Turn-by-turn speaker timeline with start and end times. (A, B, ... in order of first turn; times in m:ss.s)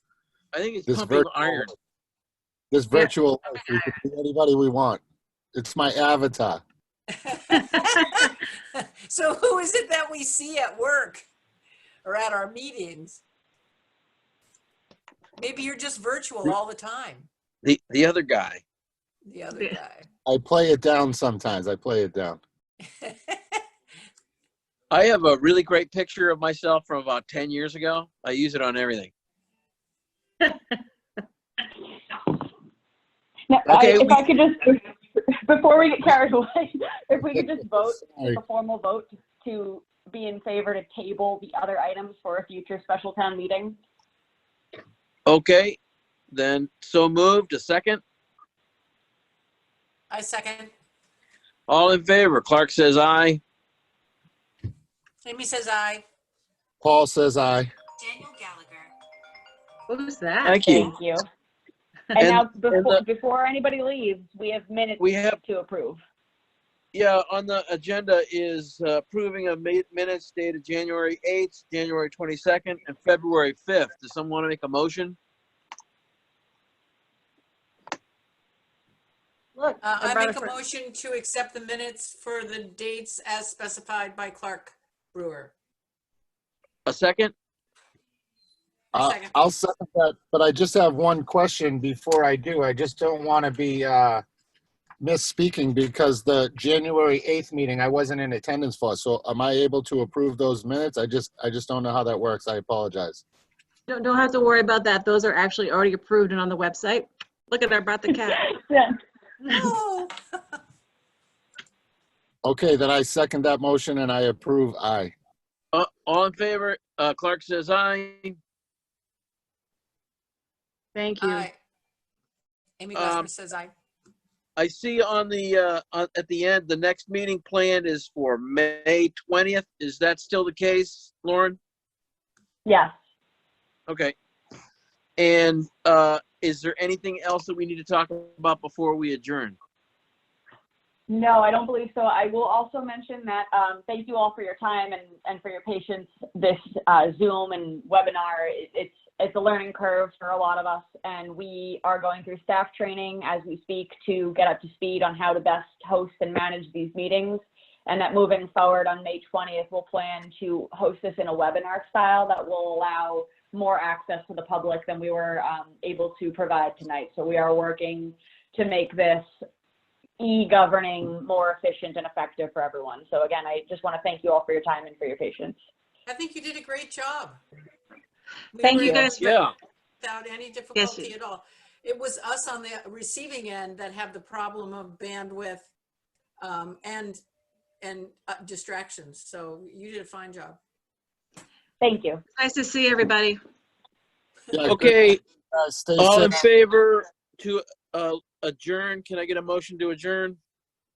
0:00.5-0:01.7 A
0:00.9-0:01.7 B
0:02.7-0:05.0 B
0:05.5-0:06.6 B
0:07.2-0:11.2 C
0:12.0-0:13.2 C
0:15.4-0:17.3 C
0:17.6-0:18.6 A
0:19.3-0:20.1 C
0:20.3-0:22.4 B
0:24.9-0:29.1 A
0:33.5-0:43.8 D
0:33.7-0:34.2 A
0:37.3-0:38.4 B
0:45.3-0:45.8 A
0:46.3-0:48.0 A
0:50.1-0:50.7 C
0:51.7-0:53.4 A
0:55.2-0:56.0 C
0:56.8-0:57.7 B
0:58.2-0:58.8 C
0:59.9-1:00.9 E
1:00.4-1:00.9 A
1:00.6-1:01.2 D
1:02.2-1:03.0 A
1:02.2-1:06.0 D
1:05.0-1:05.4 A
1:06.9-1:15.2 A
1:19.6-1:20.6 E
1:19.8-1:25.5 C
1:26.9-1:27.3 A
1:28.9-1:29.3 C
1:28.9-1:34.2 B
1:35.0-1:43.2 B
1:43.9-1:48.5 E
1:48.3-1:49.0 D
1:49.5-1:50.2 C
1:52.4-1:55.1 B
1:55.7-1:58.4 A
2:01.0-2:01.5 E
2:01.2-2:01.6 C
2:02.8-2:03.7 C
2:03.0-2:03.3 A
2:04.6-2:11.6 A
2:12.6-2:12.9 D
2:13.9-2:14.1 A
2:15.2-2:19.6 A
2:21.1-2:49.3 D
2:50.2-2:55.6 D
2:56.1-2:57.4 C
2:58.5-2:59.5 C
2:58.6-2:59.2 E
2:58.8-2:59.5 A
3:00.0-3:05.7 C
3:00.8-3:01.1 E
3:06.4-3:07.2 C
3:07.8-3:10.6 C
3:11.8-3:12.2 D
3:12.4-3:13.4 E
3:14.5-3:16.4 B
3:14.7-3:15.2 A
3:16.0-3:20.4 A